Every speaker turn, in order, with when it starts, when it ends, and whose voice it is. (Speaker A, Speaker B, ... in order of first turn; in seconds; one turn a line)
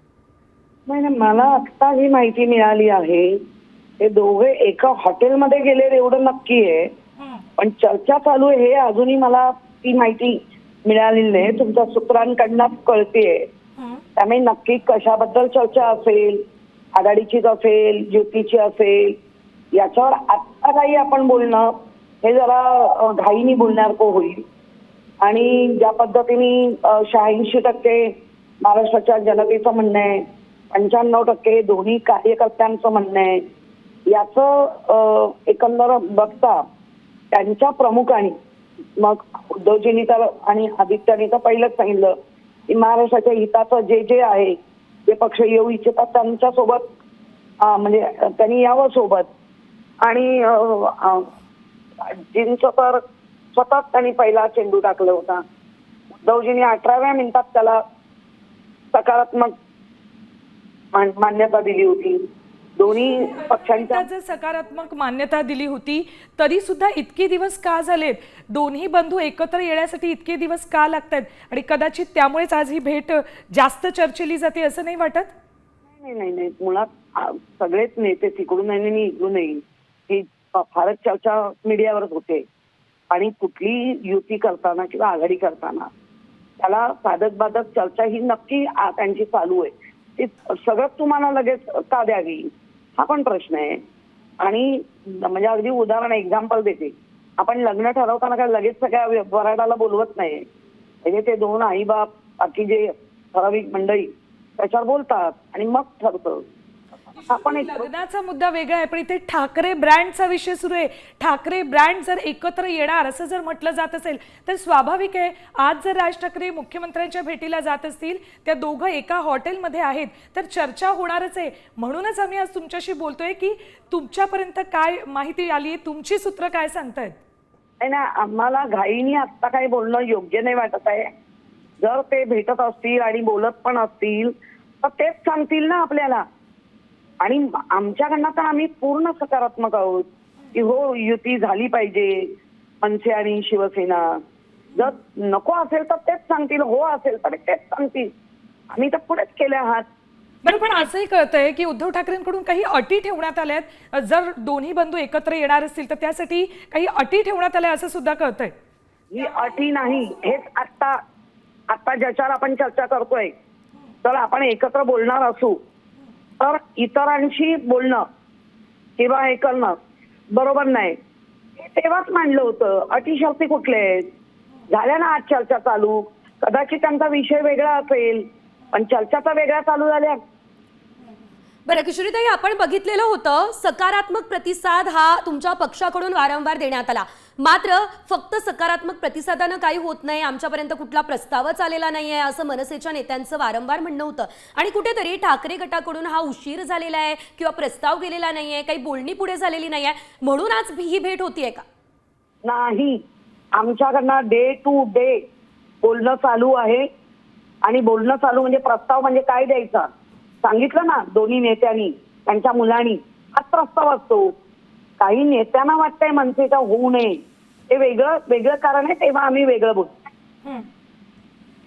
Speaker A: 0.9-3.4
Speaker A: 4.0-6.9
Speaker A: 7.6-13.5
Speaker A: 14.2-16.4
Speaker A: 16.9-19.1
Speaker A: 19.7-24.4
Speaker A: 25.2-33.4
Speaker A: 34.1-36.6
Speaker A: 37.3-38.3
Speaker A: 39.0-42.1
Speaker A: 42.7-46.9
Speaker A: 47.6-49.3
Speaker A: 50.0-51.3
Speaker A: 52.0-53.0
Speaker A: 53.5-55.4
Speaker A: 56.1-57.8
Speaker A: 58.9-59.5
Speaker A: 60.9-64.0
Speaker B: 62.9-75.3
Speaker A: 76.0-82.4
Speaker A: 83.1-85.9
Speaker A: 86.6-93.8
Speaker A: 94.4-100.4
Speaker A: 101.0-106.4
Speaker B: 107.1-127.2
Speaker A: 107.2-107.9
Speaker A: 127.8-131.1
Speaker A: 131.8-136.2
Speaker A: 137.2-144.2
Speaker A: 144.7-148.1
Speaker A: 148.7-149.8
Speaker B: 150.4-158.5
Speaker A: 159.1-161.0
Speaker A: 161.7-163.3
Speaker A: 164.0-165.6
Speaker A: 166.4-168.0
Speaker A: 169.0-169.8
Speaker A: 170.3-170.9
Speaker A: 171.6-174.1
Speaker A: 174.7-180.2
Speaker C: 181.7-201.6
Speaker A: 202.4-203.0
Speaker A: 203.5-205.2
Speaker A: 205.8-206.8
Speaker A: 207.6-209.9
Speaker A: 210.4-214.3
Speaker A: 215.0-219.9